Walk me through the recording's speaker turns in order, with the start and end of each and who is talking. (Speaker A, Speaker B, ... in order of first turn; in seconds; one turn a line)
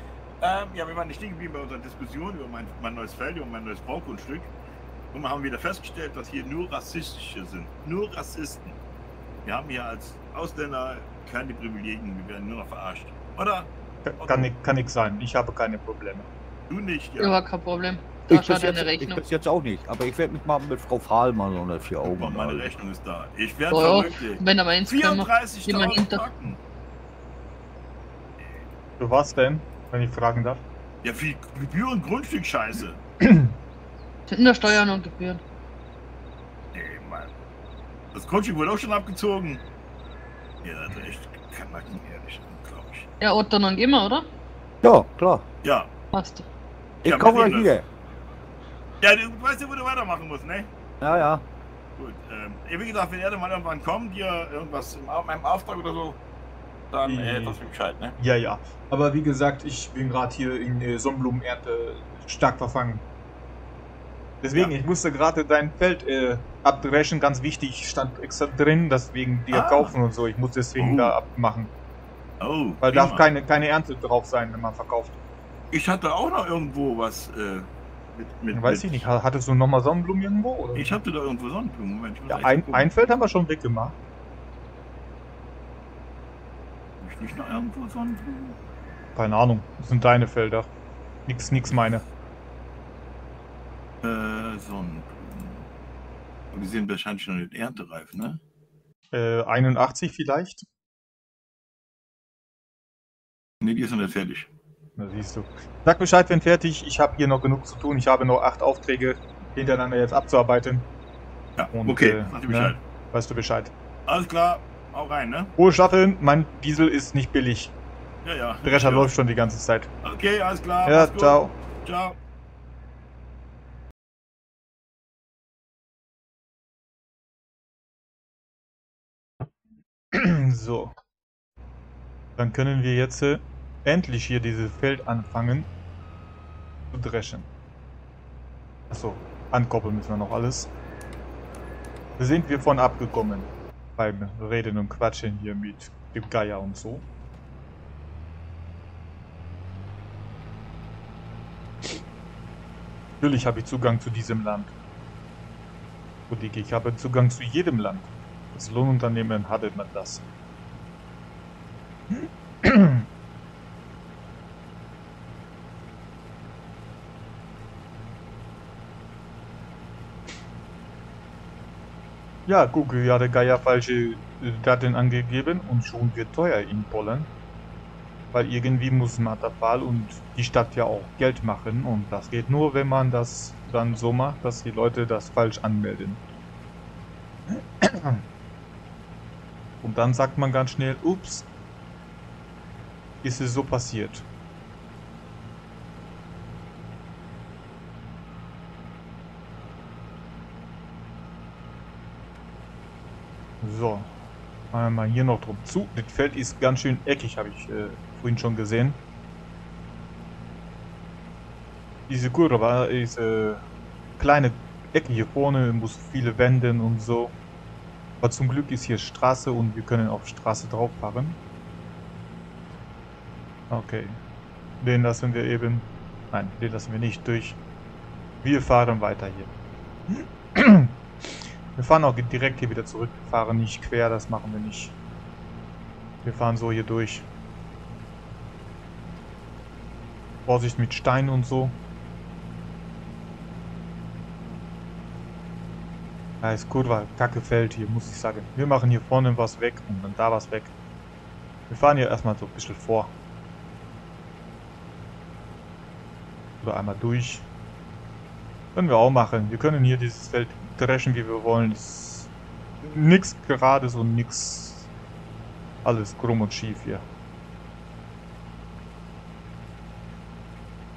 Speaker A: 0.4-4.5
Speaker A: 5.1-8.8
Speaker A: 9.4-13.7
Speaker B: 14.0-16.3
Speaker A: 14.2-14.5
Speaker A: 16.7-17.4
Speaker C: 17.2-19.2
Speaker D: 18.3-22.8
Speaker A: 22.0-26.6
Speaker C: 23.7-26.3
Speaker B: 29.0-30.6
Speaker A: 31.0-33.0
Speaker B: 33.2-33.5
Speaker C: 34.3-35.4
Speaker A: 36.7-37.3
Speaker A: 38.1-39.6
Speaker A: 40.6-43.1
Speaker C: 43.2-44.2
Speaker D: 44.8-45.4
Speaker A: 45.6-45.9
Speaker C: 46.1-46.5
Speaker A: 47.0-47.7
Speaker D: 47.0-47.9
Speaker A: 49.0-50.7
Speaker D: 51.0-51.4
Speaker A: 52.0-56.2
Speaker A: 56.9-58.1
Speaker B: 57.0-57.6
Speaker B: 58.2-63.0
Speaker B: 64.4-71.7
Speaker A: 69.5-70.0
Speaker A: 70.8-71.2
Speaker A: 72.4-73.2
Speaker B: 72.8-75.2
Speaker A: 75.7-79.1
Speaker B: 78.5-81.0
Speaker A: 80.7-82.9
Speaker B: 82.3-84.0
Speaker A: 87.0-88.6
Speaker B: 89.2-90.7
Speaker B: 91.3-92.0
Speaker A: 94.0-95.6
Speaker A: 96.5-98.4
Speaker B: 99.1-100.7
Speaker A: 103.6-104.5
Speaker B: 105.0-110.9
Speaker A: 111.6-112.8
Speaker B: 111.7-113.7
Speaker A: 114.1-115.5
Speaker B: 115.6-117.7
Speaker A: 118.2-119.1
Speaker B: 118.6-119.9
Speaker A: 120.0-122.2
Speaker B: 120.8-121.5
Speaker B: 130.1-131.0
Speaker B: 132.4-135.7
Speaker B: 136.9-137.5
Speaker B: 138.9-140.7
Speaker B: 142.2-147.1
Speaker B: 153.2-154.7
Speaker B: 156.3-160.2
Speaker B: 162.1-163.1
Speaker B: 172.4-177.3
Speaker B: 178.3-186.2
Speaker B: 187.5-188.2
Speaker B: 189.8-191.5
Speaker B: 193.2-194.2
Speaker B: 203.6-204.1
Speaker B: 204.7-209.0
Speaker B: 212.1-213.6
Speaker B: 214.2-217.3
Speaker B: 218.2-221.4
Speaker B: 223.7-224.2
Speaker B: 224.8-227.6
Speaker B: 228.4-229.5
Speaker B: 230.1-230.9
Speaker B: 231.7-234.9
Speaker B: 236.2-237.3
Speaker B: 240.4-241.8
Speaker B: 246.4-250.7
Speaker B: 251.7-253.1
Speaker B: 256.6-257.5
Speaker B: 258.7-262.3
Speaker B: 262.8-264.9
Speaker B: 265.8-267.0